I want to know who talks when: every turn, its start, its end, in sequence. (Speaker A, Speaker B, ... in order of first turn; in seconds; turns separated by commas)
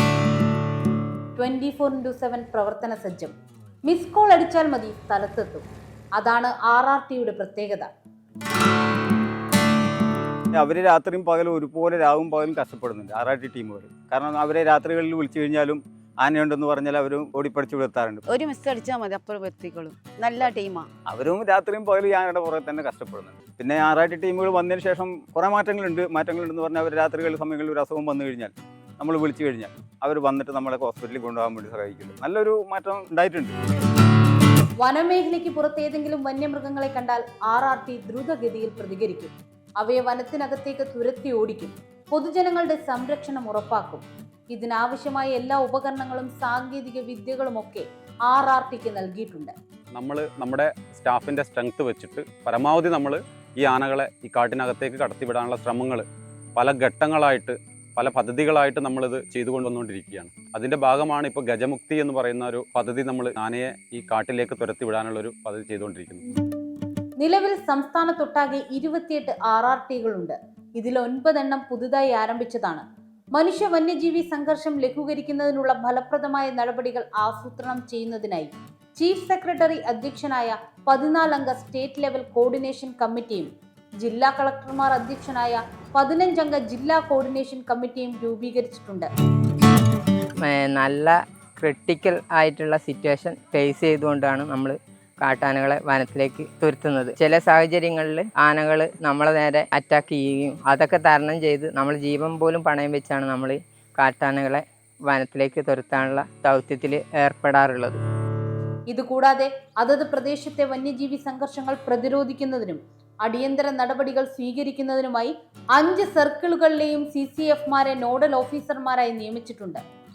Speaker A: 1.4-3.3, Speaker A: 3.9-7.9, Speaker B: 10.5-18.2, Speaker C: 18.3-20.9, Speaker B: 21.1-33.5, Speaker A: 34.8-49.5, Speaker D: 49.9-56.0, Speaker D: 56.6-66.2, Speaker A: 67.2-83.5, Speaker A: 84.0-89.1, Speaker E: 90.4-108.0, Speaker A: 108.9-119.8